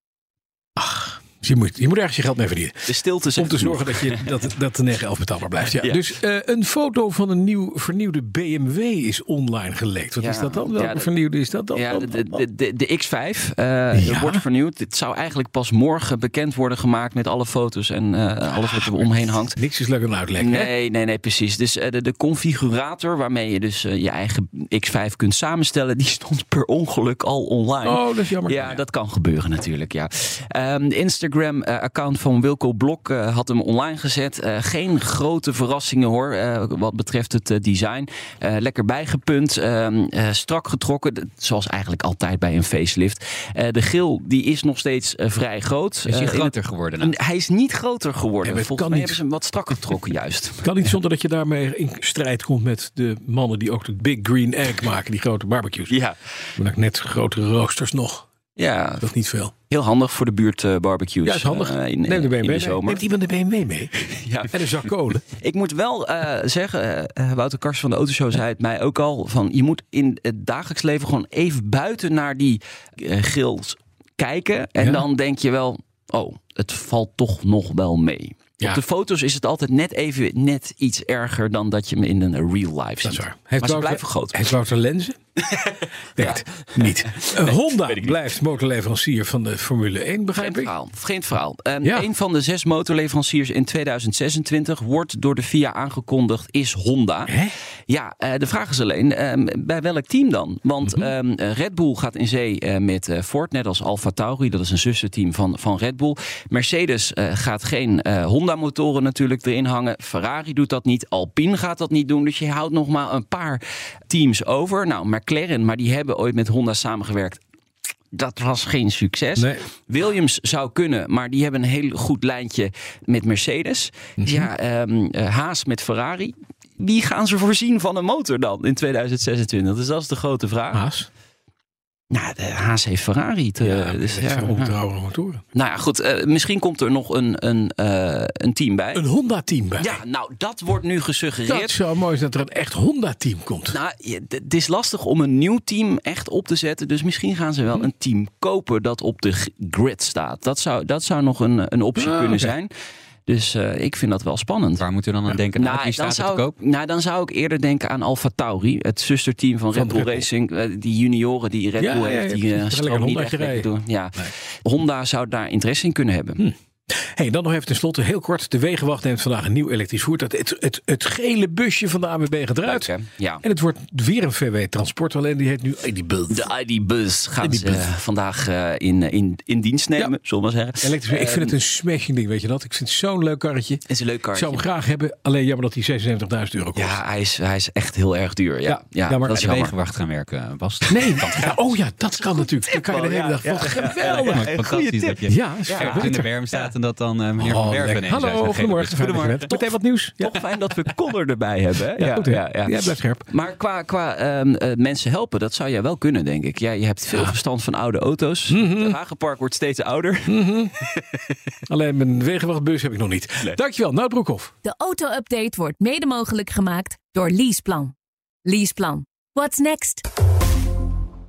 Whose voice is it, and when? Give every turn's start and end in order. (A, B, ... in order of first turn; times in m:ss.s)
0:00.8-0:12.4 A
0:02.8-0:04.3 B
0:05.8-0:06.0 B
0:10.2-0:11.1 B
0:11.7-0:19.6 B
0:13.9-0:14.4 A
0:18.6-0:20.7 A
0:20.4-0:50.7 B
0:27.8-0:28.8 A
0:46.1-0:47.1 C
0:48.4-0:49.2 A
0:50.6-0:56.0 A
0:55.9-0:56.2 B
0:56.6-0:58.2 A
0:58.6-0:59.0 B
0:59.0-0:59.5 A
0:59.7-1:03.0 B
1:01.2-1:05.2 A
1:04.1-1:04.5 B
1:05.3-1:24.4 B
1:14.8-1:15.0 A
1:23.0-1:25.2 A
1:25.5-1:28.2 B
1:26.2-1:30.7 A
1:30.4-1:37.3 B
1:37.3-1:37.5 A
1:37.9-1:57.4 B
1:58.1-2:10.8 B
1:59.4-1:59.6 A
2:04.2-2:04.5 A
2:10.7-2:11.1 A
2:12.1-2:14.7 B
2:13.6-2:15.4 A
2:15.5-2:19.0 B
2:18.9-2:20.0 A
2:19.8-2:21.7 B
2:21.5-2:23.8 A
2:23.7-2:32.7 B
2:32.0-2:32.5 A
2:33.3-2:34.8 B
2:34.8-2:36.5 C
2:35.5-2:46.4 B
2:39.7-2:40.2 A
2:41.8-2:44.3 A
2:46.4-2:56.5 A
2:52.6-2:53.4 B
2:56.3-3:01.6 B
2:57.4-2:57.9 A
3:00.8-3:07.0 A
3:03.9-3:04.6 B
3:06.7-3:09.8 B
3:08.6-3:09.5 A
3:09.3-3:11.6 C
3:10.9-3:14.5 A
3:12.6-3:16.7 B
3:13.8-3:19.5 C
3:15.3-3:16.4 A
3:17.4-3:20.3 A
3:20.2-3:31.3 B
3:22.0-3:23.2 A
3:28.5-3:29.0 A
3:30.3-3:30.7 A
3:31.7-3:34.5 A
3:34.6-3:37.9 D
3:38.4-3:40.0 D